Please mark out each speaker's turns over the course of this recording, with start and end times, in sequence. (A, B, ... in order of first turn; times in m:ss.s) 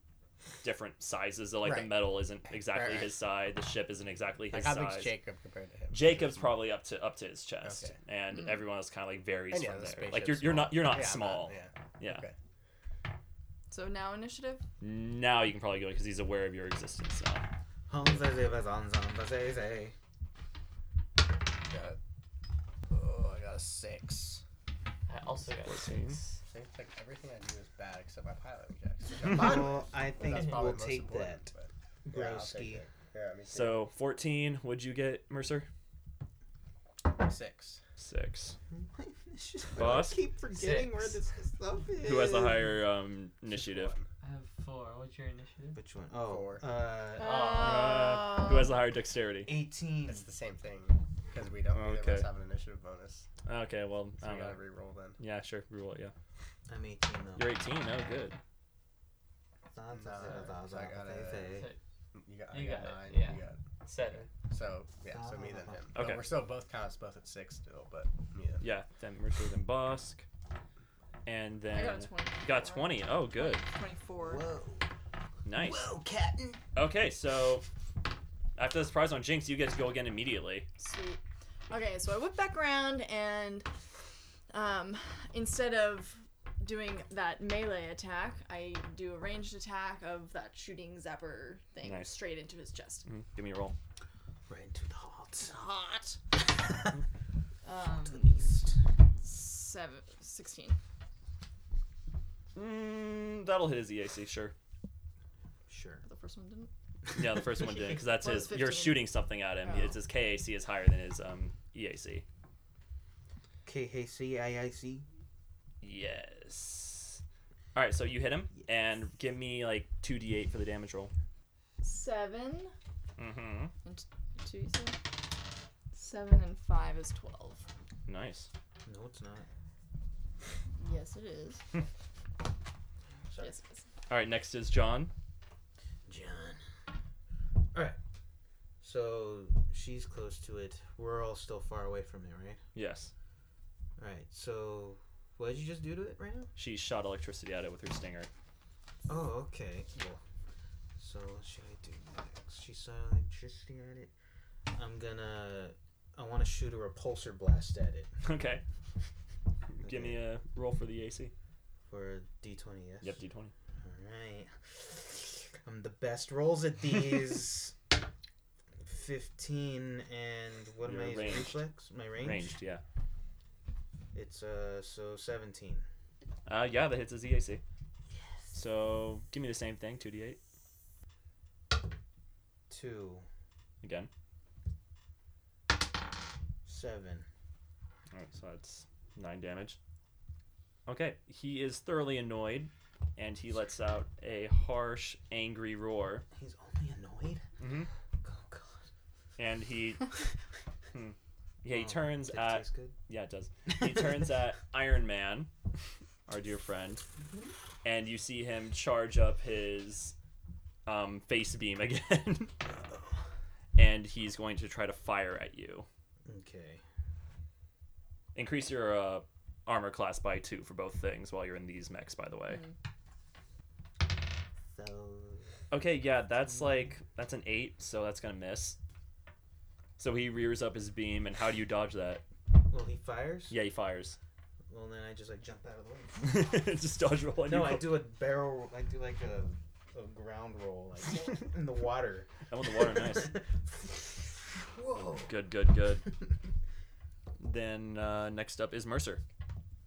0:00.6-0:05.2 A
0:01.6-0:03.2 B
0:04.5-0:06.6 B
0:05.9-0:12.2 A
0:07.6-0:08.0 B
0:09.5-0:12.4 B
0:13.7-0:14.6 C
0:14.8-0:17.5 A
0:17.9-0:20.0 D
0:21.6-0:22.0 B
0:22.9-0:24.4 B
0:25.1-0:26.4 E
0:25.6-0:26.2 A
0:26.5-0:33.9 B
0:29.2-0:31.5 D
0:32.1-0:32.8 D
0:33.5-0:35.7 A
0:37.1-0:37.8 B
0:38.0-0:38.6 A
0:38.7-0:42.8 D
0:39.8-0:40.2 A
0:40.5-0:41.2 E
0:42.0-0:44.0 A
0:43.5-0:44.1 B
0:44.2-0:45.8 E
0:45.7-0:47.6 D
0:46.1-0:46.6 B
0:47.2-0:48.8 C
0:47.2-0:47.9 E
0:47.6-0:49.5 A
0:49.4-0:50.2 D
0:50.1-0:53.3 B
0:51.7-0:52.3 A
0:53.4-0:54.6 A
0:54.2-0:55.2 B
0:55.2-0:56.1 A
0:56.7-0:57.5 D
0:57.4-0:58.4 A
0:59.7-1:01.7 D
0:59.9-1:01.6 B
1:02.1-1:08.7 B
1:02.5-1:04.3 E
1:05.1-1:06.0 D
1:06.0-1:06.2 A
1:08.6-1:10.3 A
1:11.2-1:13.6 A
1:11.7-1:14.5 C
1:14.2-1:14.9 D
1:15.4-1:15.9 A
1:15.6-1:16.6 D
1:16.8-1:17.7 A
1:18.6-1:20.7 A
1:20.8-1:23.7 C
1:24.5-1:33.1 C
1:31.8-1:32.2 A
1:33.0-1:33.8 A
1:34.5-1:37.0 D
1:37.6-1:38.7 C
1:38.1-1:38.8 D
1:39.2-1:40.8 C
1:42.5-1:44.5 A
1:45.7-1:46.0 D
1:46.0-1:46.7 C
1:47.1-1:52.2 A
1:47.6-1:49.1 C
1:49.6-1:50.0 C
1:53.6-1:55.0 D
1:55.8-1:57.2 A
1:57.7-2:01.1 A
2:01.8-2:02.7 C
2:03.2-2:03.7 A
2:03.8-2:05.0 C
2:05.9-2:07.6 C
2:08.1-2:08.5 A
2:08.8-2:09.5 D
2:10.8-2:11.6 C
2:13.4-2:13.8 C
2:14.1-2:15.1 A
2:16.1-2:16.6 D
2:17.7-2:18.0 D
2:18.8-2:22.6 D
2:22.8-2:23.1 A
2:24.0-2:26.5 D
2:26.6-2:28.3 A
2:29.1-2:30.2 D
2:31.0-2:34.1 D
2:34.7-2:38.1 D
2:38.2-2:38.6 A
2:39.8-2:41.3 A
2:39.8-2:40.2 D
2:41.9-2:43.2 D
2:43.0-2:43.5 A
2:43.8-2:47.8 D
2:48.8-2:52.6 D
2:50.8-2:51.6 A
2:52.2-2:52.8 A
2:54.1-2:55.8 D
2:56.5-2:57.6 A
2:58.5-3:00.4 A
3:02.7-3:03.3 D
3:03.8-3:04.1 A
3:06.7-3:07.3 D
3:08.1-3:09.8 A
3:10.9-3:16.3 A
3:16.3-3:17.4 D
3:17.6-3:17.9 A
3:18.2-3:18.8 D
3:19.4-3:20.2 A
3:20.9-3:25.5 A
3:21.7-3:23.0 D
3:26.3-3:27.0 A
3:27.8-3:30.2 A
3:30.9-3:32.5 A
3:33.8-3:35.9 A
3:36.3-3:36.8 D
3:38.4-3:42.6 A
3:44.7-3:45.5 D
3:45.7-3:48.8 A
3:50.0-3:52.2 A
3:52.6-3:53.6 D
3:53.5-3:54.2 A
3:54.7-3:56.5 D
3:56.2-3:58.0 A
3:57.4-4:05.4 D
4:02.5-4:03.4 A
4:05.3-4:06.1 A
4:07.4-4:09.2 A